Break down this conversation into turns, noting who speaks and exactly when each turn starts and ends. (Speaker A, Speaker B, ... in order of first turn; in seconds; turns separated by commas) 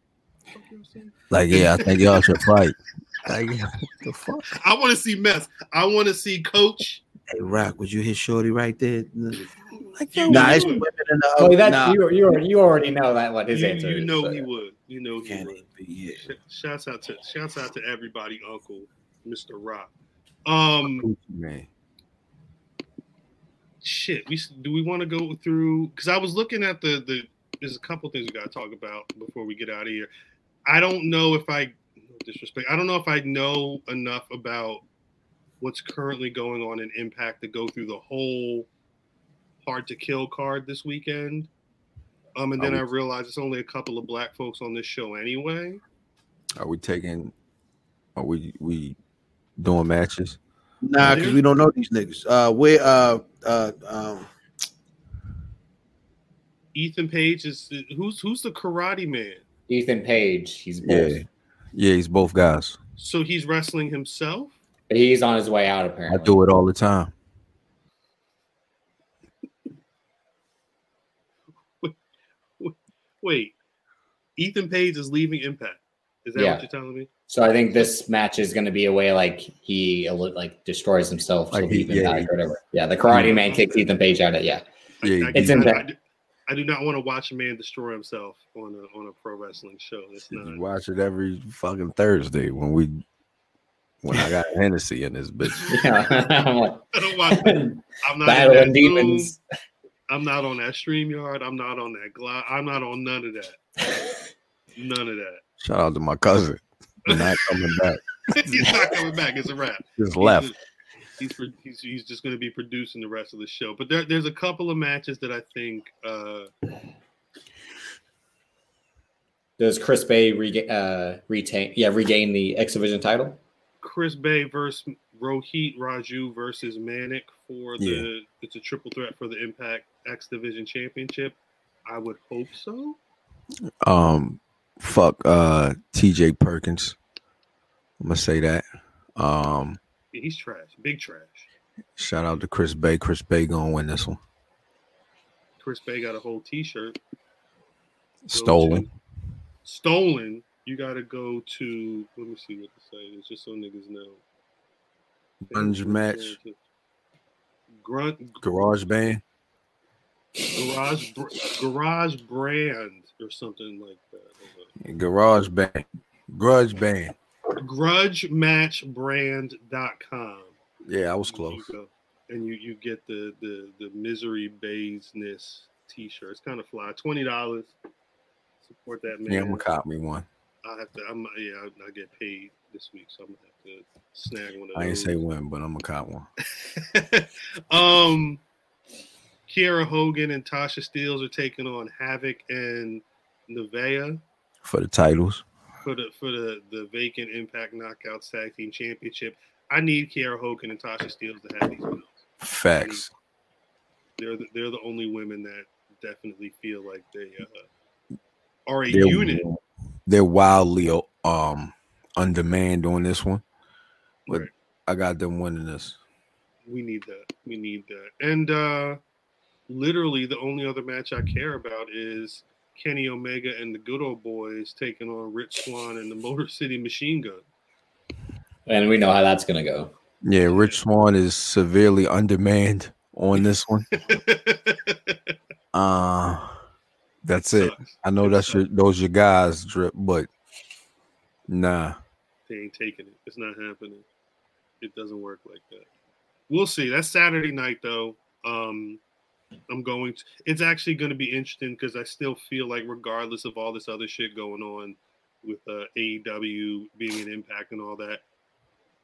Speaker A: 0.5-2.2, Speaker B: 1.3-4.5, Speaker A: 4.5-7.0, Speaker C: 7.3-9.5, Speaker A: 9.7-10.8, Speaker B: 9.9-10.7, Speaker C: 10.3-12.0, Speaker D: 11.4-14.4, Speaker A: 13.5-15.6, Speaker C: 15.2-16.3, Speaker A: 16.2-19.9, Speaker A: 20.4-21.1, Speaker B: 20.8-21.7, Speaker A: 23.8-30.1, Speaker A: 30.6-34.8, Speaker A: 35.6-38.7, Speaker A: 39.6-41.5, Speaker A: 42.4-45.8, Speaker B: 42.6-42.9, Speaker B: 46.6-47.3, Speaker B: 48.1-49.0, Speaker B: 49.6-50.4, Speaker C: 50.8-54.3, Speaker A: 51.0-51.4, Speaker A: 56.7-59.4, Speaker D: 59.7-61.2, Speaker B: 60.8-62.8, Speaker A: 63.0-64.5, Speaker D: 64.9-66.4, Speaker B: 66.1-67.1, Speaker A: 72.6-73.5, Speaker A: 74.4-77.1, Speaker D: 76.3-76.6, Speaker D: 77.3-84.6, Speaker B: 81.5-82.3, Speaker B: 83.1-83.4, Speaker A: 83.4-83.9, Speaker A: 85.0-86.0, Speaker B: 85.0-85.6, Speaker D: 85.3-85.8, Speaker A: 86.5-90.6, Speaker B: 90.3-93.0, Speaker B: 94.0-95.7, Speaker D: 95.7-99.4, Speaker A: 96.9-99.3, Speaker A: 100.1-103.6, Speaker A: 104.8-105.4, Speaker B: 105.6-108.8, Speaker A: 107.1-107.4, Speaker A: 108.3-110.5, Speaker B: 110.0-110.5, Speaker A: 111.2-116.5, Speaker D: 119.6-123.4, Speaker A: 123.8-133.0, Speaker B: 127.8-128.1, Speaker B: 133.8-136.9, Speaker B: 138.0-138.6, Speaker B: 139.2-139.8, Speaker A: 140.1-141.5, Speaker B: 142.0-144.2, Speaker A: 145.6-147.0, Speaker B: 148.2-148.9, Speaker A: 148.3-148.9, Speaker A: 149.6-154.2, Speaker B: 155.4-156.4, Speaker A: 155.5-156.5, Speaker A: 157.8-158.4, Speaker B: 158.4-159.2, Speaker A: 160.5-164.7, Speaker B: 164.8-167.2, Speaker A: 167.6-170.6, Speaker B: 170.8-171.7, Speaker A: 171.2-177.7, Speaker A: 178.6-179.7, Speaker B: 179.3-180.2, Speaker A: 180.6-185.2, Speaker B: 184.7-186.3, Speaker A: 186.7-188.4, Speaker A: 189.5-194.2, Speaker B: 194.6-195.4, Speaker A: 195.8-202.2, Speaker B: 202.4-203.1, Speaker A: 202.8-203.1, Speaker A: 204.2-207.7, Speaker A: 208.7-209.4, Speaker B: 208.9-213.4, Speaker B: 214.3-216.0, Speaker A: 216.7-219.0, Speaker A: 219.7-227.4, Speaker D: 228.7-229.9, Speaker B: 230.2-233.9, Speaker A: 230.5-230.8, Speaker A: 233.9-235.3, Speaker B: 235.7-236.6, Speaker B: 237.2-240.3, Speaker A: 237.5-238.6, Speaker B: 241.5-242.0, Speaker A: 242.5-244.0, Speaker A: 244.8-245.9, Speaker A: 246.5-249.0, Speaker A: 249.7-258.2